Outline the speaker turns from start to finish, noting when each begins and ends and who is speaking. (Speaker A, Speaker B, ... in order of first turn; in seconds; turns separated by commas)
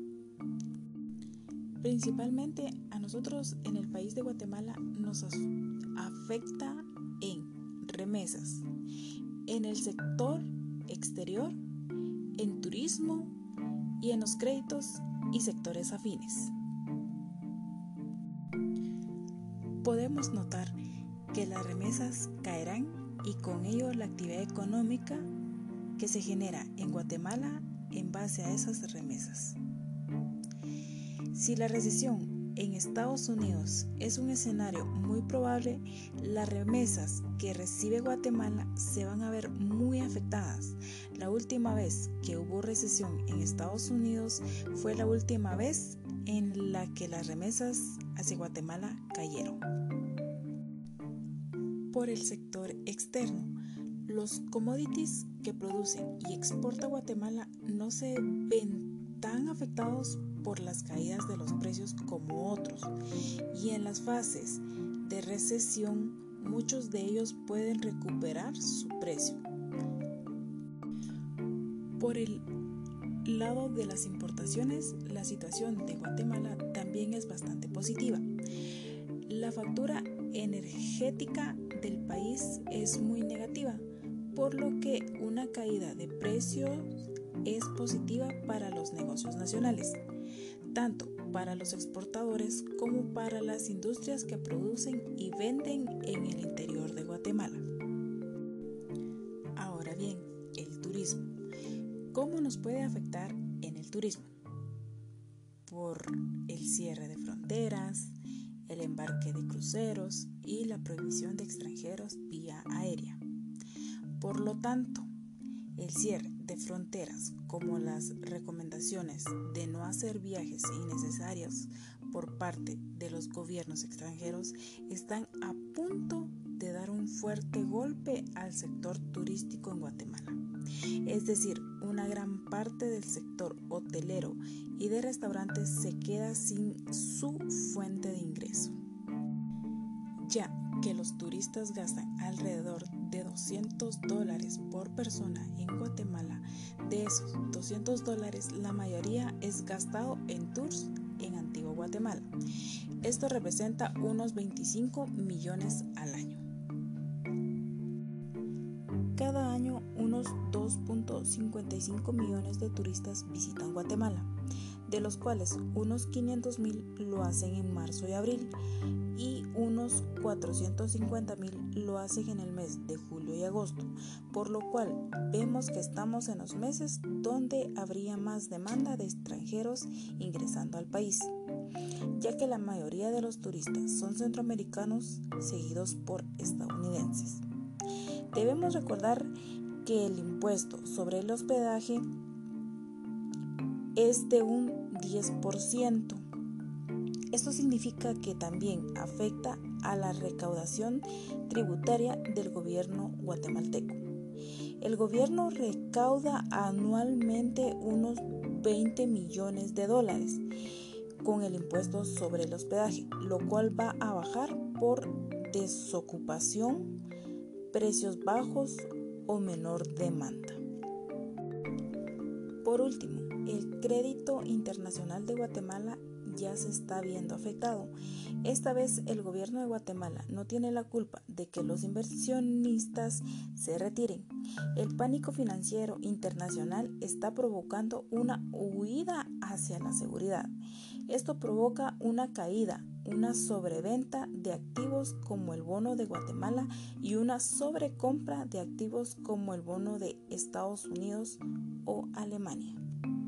Speaker A: 1.8-8.7, Speaker A: 9.5-11.6, Speaker A: 12.4-13.3, Speaker A: 14.0-16.5, Speaker A: 19.8-20.8, Speaker A: 21.3-25.3, Speaker A: 26.0-29.6, Speaker A: 31.3-49.6, Speaker A: 51.9-62.9, Speaker A: 63.5-69.4, Speaker A: 72.0-72.5, Speaker A: 73.2-78.3, Speaker A: 79.3-90.0, Speaker A: 90.7-97.7, Speaker A: 99.6-101.4, Speaker A: 102.1-104.3, Speaker A: 105.7-108.1, Speaker A: 108.7-113.2, Speaker A: 114.2-115.1, Speaker A: 115.8-130.4, Speaker A: 131.0-138.8, Speaker A: 140.2-152.3, Speaker A: 153.0-156.4, Speaker A: 159.2-164.3, Speaker A: 164.9-168.6, Speaker A: 169.1-181.3, Speaker A: 182.1-187.4, Speaker A: 188.3-192.1, Speaker A: 193.9-196.2, Speaker A: 197.3-204.1, Speaker A: 204.8-210.4, Speaker A: 211.2-217.0, Speaker A: 217.7-220.6, Speaker A: 222.6-240.5, Speaker A: 241.1-252.8